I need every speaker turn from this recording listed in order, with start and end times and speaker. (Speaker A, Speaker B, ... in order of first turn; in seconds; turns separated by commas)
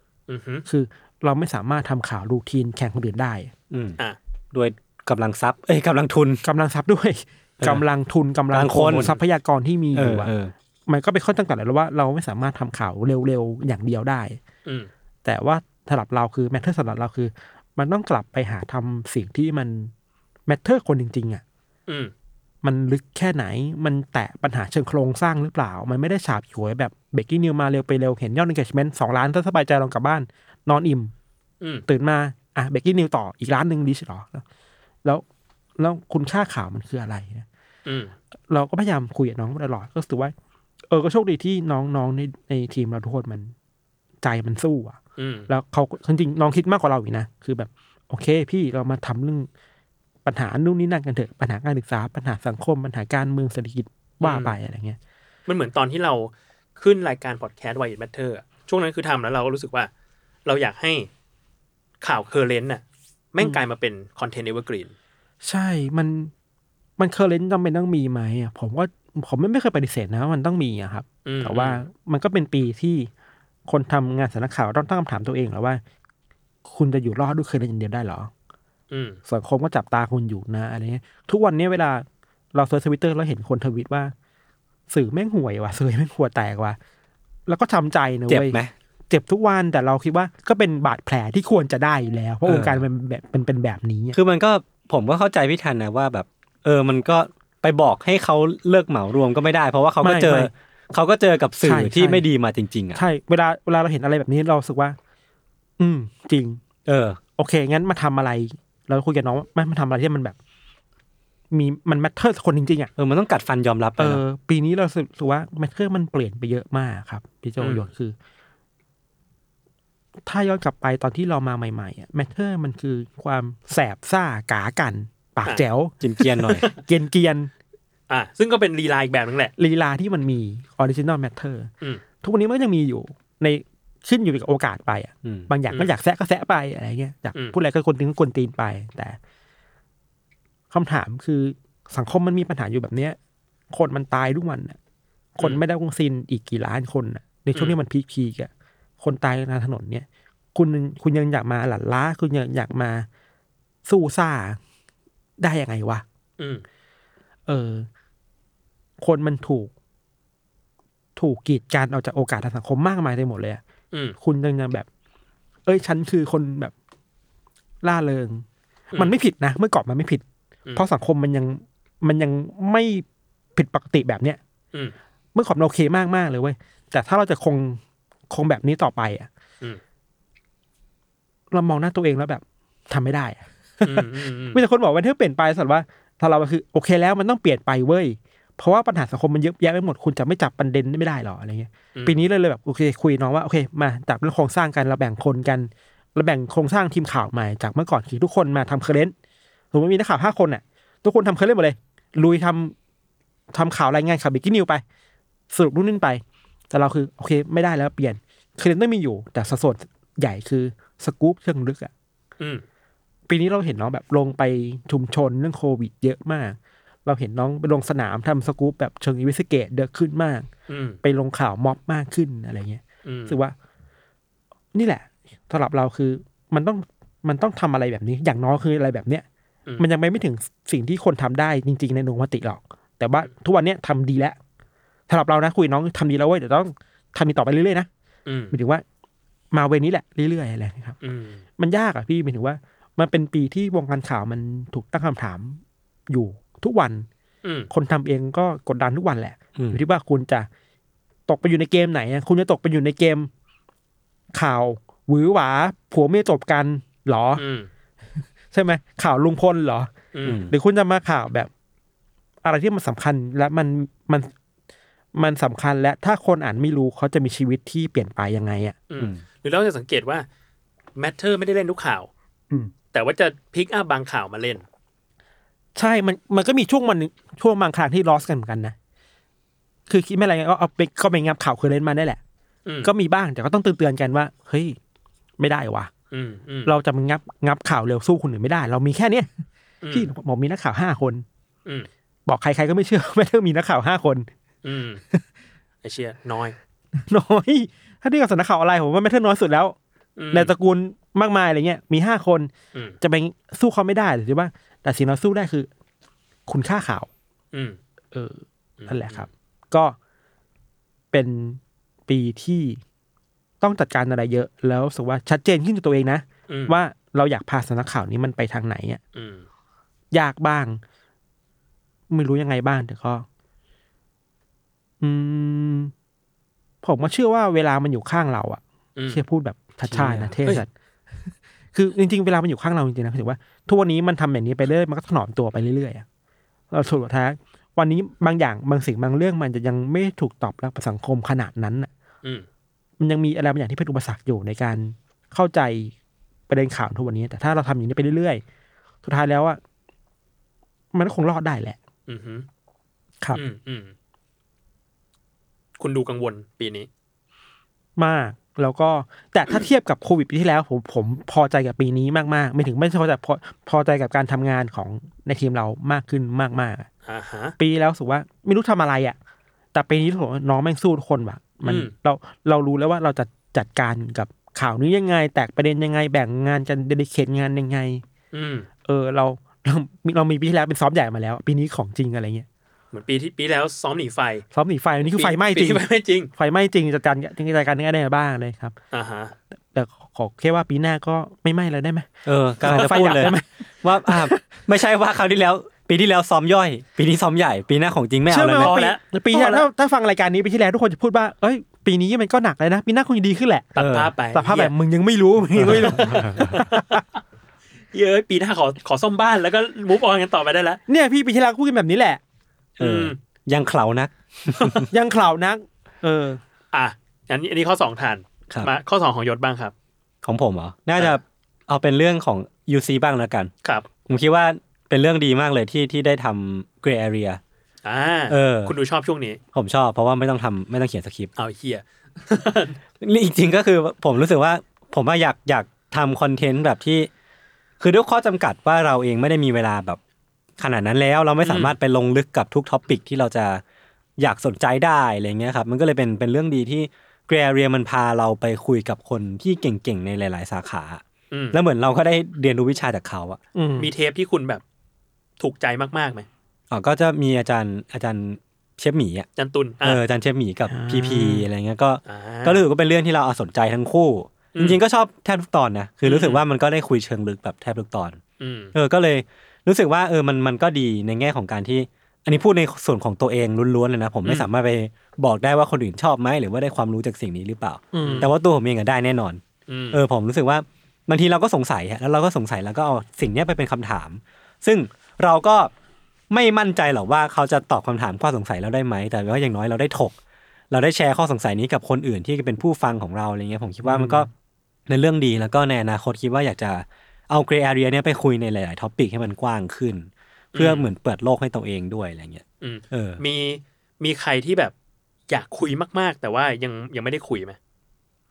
Speaker A: 0.3-0.7, Speaker B: 0.7-3.5, Speaker C: 3.7-4.0, Speaker C: 4.5-6.4, Speaker B: 6.4-10.3, Speaker C: 8.5-9.1, Speaker C: 9.9-10.5, Speaker B: 10.9-14.4, Speaker B: 15.2-19.9, Speaker B: 20.5-21.4, Speaker A: 21.9-22.1, Speaker B: 22.6-31.1, Speaker A: 31.6-31.9, Speaker B: 31.9-34.4, Speaker B: 35.8-37.5, Speaker A: 37.9-38.1, Speaker B: 38.5-40.3, Speaker B: 40.9-43.5, Speaker B: 44.2-45.0, Speaker A: 45.2-45.5, Speaker B: 45.5-49.5, Speaker B: 50.2-55.0, Speaker A: 54.2-54.6, Speaker A: 55.5-59.9, Speaker A: 60.5-61.1, Speaker A: 62.0-64.9, Speaker B: 65.4-66.3, Speaker B: 67.0-73.1, Speaker A: 71.2-71.8, Speaker B: 73.7-75.8, Speaker B: 76.7-78.3, Speaker A: 78.9-79.2, Speaker B: 79.3-84.1, Speaker B: 84.9-86.8, Speaker B: 87.5-94.2, Speaker C: 88.3-88.7, Speaker C: 92.5-92.8, Speaker C: 94.1-103.0, Speaker B: 100.0-100.5, Speaker B: 101.6-102.2, Speaker B: 103.0-105.0, Speaker B: 105.8-106.6, Speaker C: 106.9-107.2, Speaker B: 107.4-110.4, Speaker B: 111.5-112.9, Speaker C: 113.0-114.2, Speaker B: 114.0-118.2, Speaker A: 117.6-117.9, Speaker B: 120.3-125.9, Speaker C: 126.0-126.7, Speaker A: 126.4-126.7, Speaker B: 126.5-127.5, Speaker A: 128.1-129.5, Speaker B: 129.6-131.7, Speaker B: 132.2-139.2, Speaker C: 135.2-135.5, Speaker B: 140.7-143.2, Speaker B: 143.7-144.8, Speaker B: 145.4-153.1, Speaker B: 153.9-154.6, Speaker B: 155.4-156.0, Speaker A: 156.4-156.6, Speaker B: 157.5-157.9, Speaker B: 159.0-159.7, Speaker B: 161.2-163.6, Speaker B: 164.2-164.9, Speaker B: 165.7-166.7, Speaker B: 167.8-168.4, Speaker B: 169.0-170.2, Speaker B: 170.8-173.0, Speaker B: 173.6-174.4, Speaker B: 175.3-179.3, Speaker B: 181.5-199.1, Speaker A: 183.8-184.6, Speaker A: 191.9-192.2, Speaker B: 199.7-202.8, Speaker B: 203.5-204.8, Speaker B: 205.5-211.9, Speaker B: 213.3-220.5, Speaker A: 220.7-221.0, Speaker B: 221.0-223.5, Speaker A: 223.1-223.4, Speaker B: 224.7-229.2, Speaker B: 229.8-234.4, Speaker B: 235.1-237.9, Speaker A: 238.3-238.6, Speaker B: 238.5-238.8, Speaker B: 239.5-241.0, Speaker A: 241.0-241.4, Speaker B: 241.6-247.1, Speaker A: 247.4-247.7, Speaker B: 247.7-250.5, Speaker B: 251.3-253.3, Speaker B: 254.3-257.4, Speaker A: 257.4-257.7, Speaker B: 258.5-259.9, Speaker A: 260.1-260.4, Speaker C: 260.2-260.5, Speaker B: 260.5-261.5, Speaker B: 262.4-264.3, Speaker B: 265.1-268.8, Speaker A: 268.9-270.3, Speaker A: 271.0-272.1, Speaker A: 272.9-274.6, Speaker B: 275.8-278.8, Speaker B: 279.9-282.2, Speaker A: 282.7-282.9, Speaker B: 282.8-284.8, Speaker B: 285.4-285.9, Speaker A: 286.1-286.7, Speaker B: 286.7-289.3, Speaker A: 289.8-290.1, Speaker B: 289.9-291.2, Speaker B: 292.3-294.3, Speaker A: 294.6-295.0, Speaker A: 295.8-296.6, Speaker B: 296.9-299.8, Speaker A: 300.2-300.5, Speaker B: 300.3-305.7, Speaker B: 306.5-307.1, Speaker A: 307.5-307.8, Speaker B: 308.1-310.0, Speaker A: 308.8-309.3, Speaker B: 311.1-312.8, Speaker B: 313.6-319.0, Speaker A: 316.5-316.8, Speaker A: 319.1-319.4, Speaker B: 320.1-320.8, Speaker B: 322.1-323.3, Speaker B: 325.0-325.9, Speaker B: 326.8-330.7, Speaker A: 329.0-329.2, Speaker C: 329.9-330.4, Speaker B: 331.7-336.1, Speaker B: 336.7-341.9, Speaker B: 343.0-345.9, Speaker B: 346.5-348.4, Speaker B: 349.0-349.6, Speaker B: 350.9-351.8, Speaker A: 352.1-352.5, Speaker A: 353.3-353.9, Speaker A: 355.8-356.9, Speaker B: 358.0-366.9, Speaker A: 367.1-367.6, Speaker B: 367.6-369.2, Speaker B: 369.7-378.0, Speaker A: 371.6-371.9, Speaker A: 378.3-378.7, Speaker B: 378.9-382.5, Speaker A: 382.9-384.4, Speaker B: 384.5-385.8, Speaker A: 385.0-386.3, Speaker B: 386.4-388.8, Speaker A: 388.9-389.4, Speaker B: 389.7-392.1, Speaker C: 392.2-398.8, Speaker B: 392.6-393.5, Speaker A: 392.7-393.3, Speaker B: 394.0-394.4, Speaker B: 398.3-403.8, Speaker A: 398.6-399.6, Speaker A: 403.8-404.7, Speaker C: 403.8-404.1, Speaker B: 404.3-407.0, Speaker C: 405.6-406.6, Speaker A: 405.7-407.0, Speaker A: 407.9-410.8, Speaker B: 410.9-412.2, Speaker A: 412.8-413.2, Speaker C: 412.8-414.9, Speaker B: 414.9-416.4, Speaker A: 416.7-419.7, Speaker C: 420.2-423.5, Speaker C: 424.1-427.4, Speaker A: 427.8-429.4, Speaker C: 428.3-428.7, Speaker C: 429.5-431.3, Speaker A: 431.4-432.8, Speaker C: 433.0-437.1, Speaker C: 437.8-440.0, Speaker C: 440.6-443.6, Speaker A: 441.4-441.8, Speaker C: 444.2-451.0, Speaker A: 451.3-451.6, Speaker C: 451.5-453.4, Speaker B: 453.6-453.9, Speaker A: 453.8-454.6, Speaker A: 455.4-456.3, Speaker C: 456.7-459.3, Speaker A: 459.4-460.0, Speaker C: 459.8-468.2, Speaker B: 460.7-461.5, Speaker A: 462.1-462.6, Speaker A: 464.6-464.8, Speaker A: 466.1-466.4, Speaker A: 468.4-468.7, Speaker C: 468.7-479.4, Speaker B: 477.9-478.3, Speaker A: 478.0-478.3, Speaker A: 479.7-480.0, Speaker C: 479.9-485.7, Speaker C: 486.3-490.1, Speaker C: 490.7-494.3, Speaker B: 493.8-494.3, Speaker C: 494.9-503.2, Speaker A: 500.5-500.9, Speaker A: 502.6-504.7, Speaker A: 505.3-507.6